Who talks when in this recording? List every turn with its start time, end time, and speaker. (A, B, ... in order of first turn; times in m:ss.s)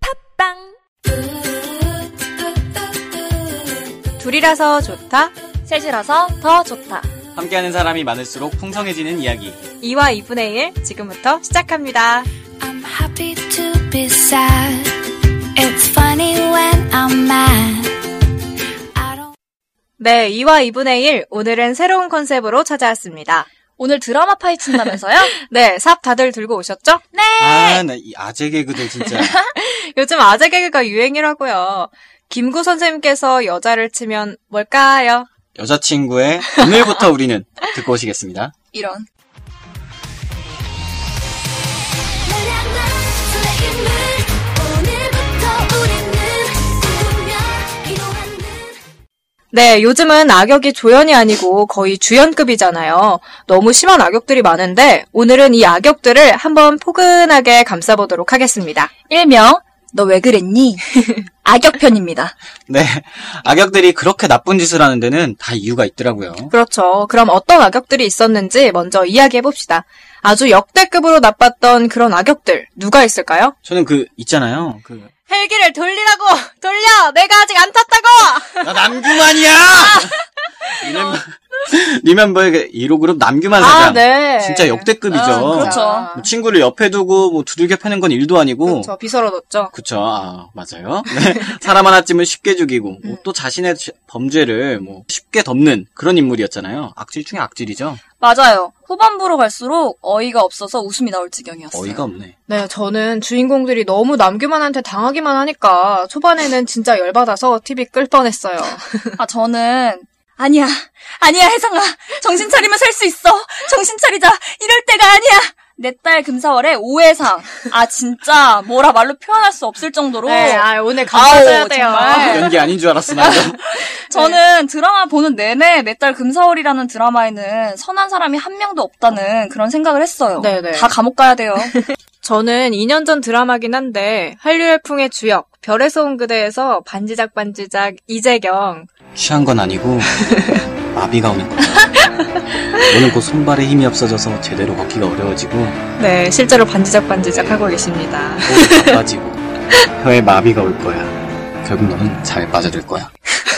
0:04.2-0:05.3 A
0:05.6-0:07.1 B
0:07.3-0:09.6 C
0:09.8-0:12.3 A
0:12.6-0:14.4 D
0:15.6-0:17.8 D
0:20.0-0:23.5 A
0:23.8-0:25.3 B
0:25.2-0:27.0 A
0:27.2-0:27.8 B
0:27.4-0:29.4 C
0:29.5-0:35.3 A
0:35.5-0:38.5 C
0:36.6-0:36.8 A
0:38.7-0:39.1 B
0:49.5-0:58.9 A
0:59.1-1:02.3 B
1:02.7-1:06.5 C
1:06.5-1:13.5 A
1:13.6-1:15.1 C
1:15.3-1:21.2 A
1:18.6-1:20.2 C
1:20.8-1:28.9 C
1:23.6-1:26.3 A
1:25.1-1:26.1 B
1:28.6-1:29.7 A
1:29.7-1:38.0 C
1:31.2-1:31.6 A
1:38.2-1:42.0 B
1:41.7-1:42.3 C
1:42.5-1:49.2 A
1:49.2-2:02.6 B
2:00.2-2:02.5 A
2:02.1-2:03.6 C
2:03.2-2:11.7 B
2:04.1-2:04.4 A
2:10.4-2:10.9 A
2:11.6-2:18.9 A
2:19.1-2:20.3 C
2:20.2-2:20.6 A
2:20.9-2:22.0 C
2:22.8-2:25.8 C
2:26.0-2:29.0 A
2:27.4-2:27.6 C
2:28.4-2:29.4 C
2:30.0-2:33.1 C